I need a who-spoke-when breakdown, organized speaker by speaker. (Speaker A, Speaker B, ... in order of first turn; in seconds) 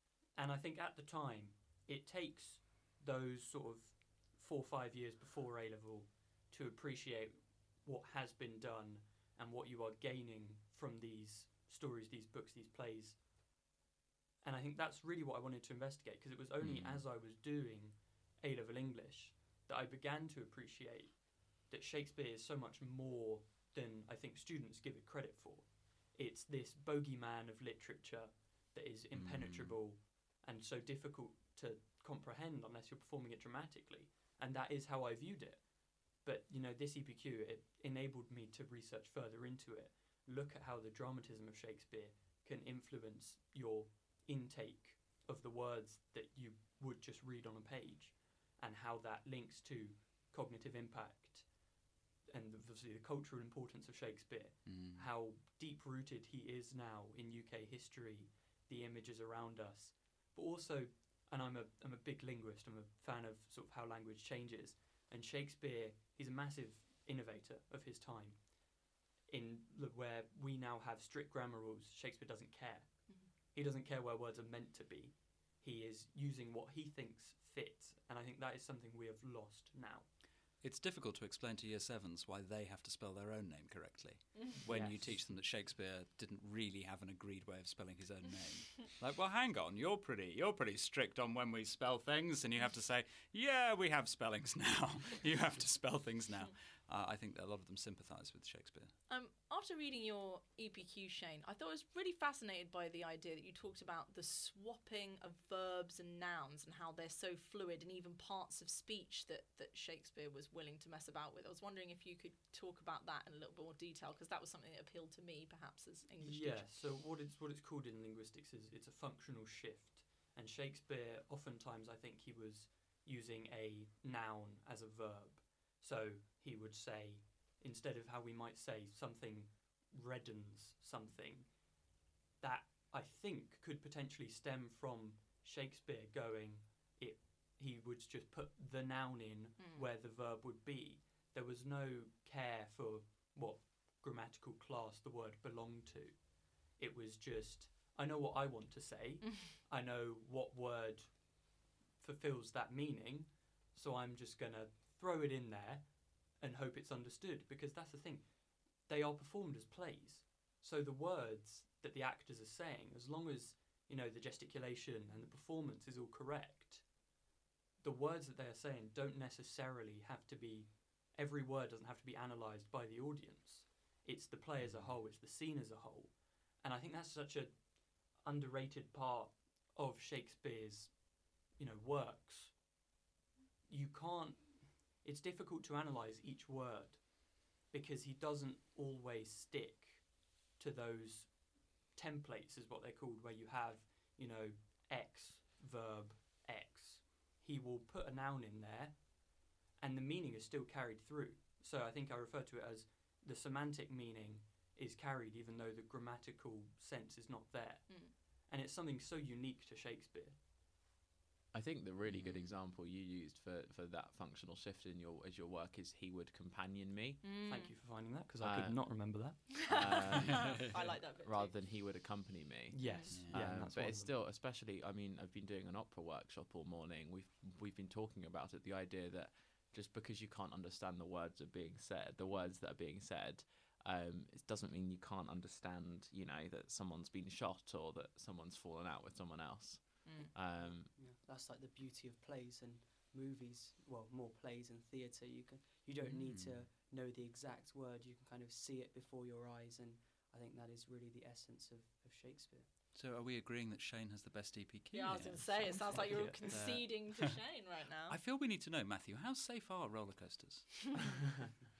Speaker A: 0.3-13.2, 14.4-51.6, 52.2-80.1, 84.6-85.2, 116.2-166.9, 167.8-182.7, 183.7-210.4, 217.4-219.8, 222.7-224.1, 255.9-256.6
Speaker B: 16.6-17.1, 29.1-29.9, 54.6-55.1, 80.5-98.9, 174.6-175.1, 212.0-212.5, 223.1-223.7, 246.0-246.7, 252.9-261.2
Speaker C: 99.1-116.7, 139.6-139.9, 207.9-208.1, 217.2-217.8, 219.7-221.6, 222.8-223.2, 240.0-240.3, 254.9-258.2
Speaker D: 211.5-217.2, 218.4-240.9
Speaker E: 240.9-252.7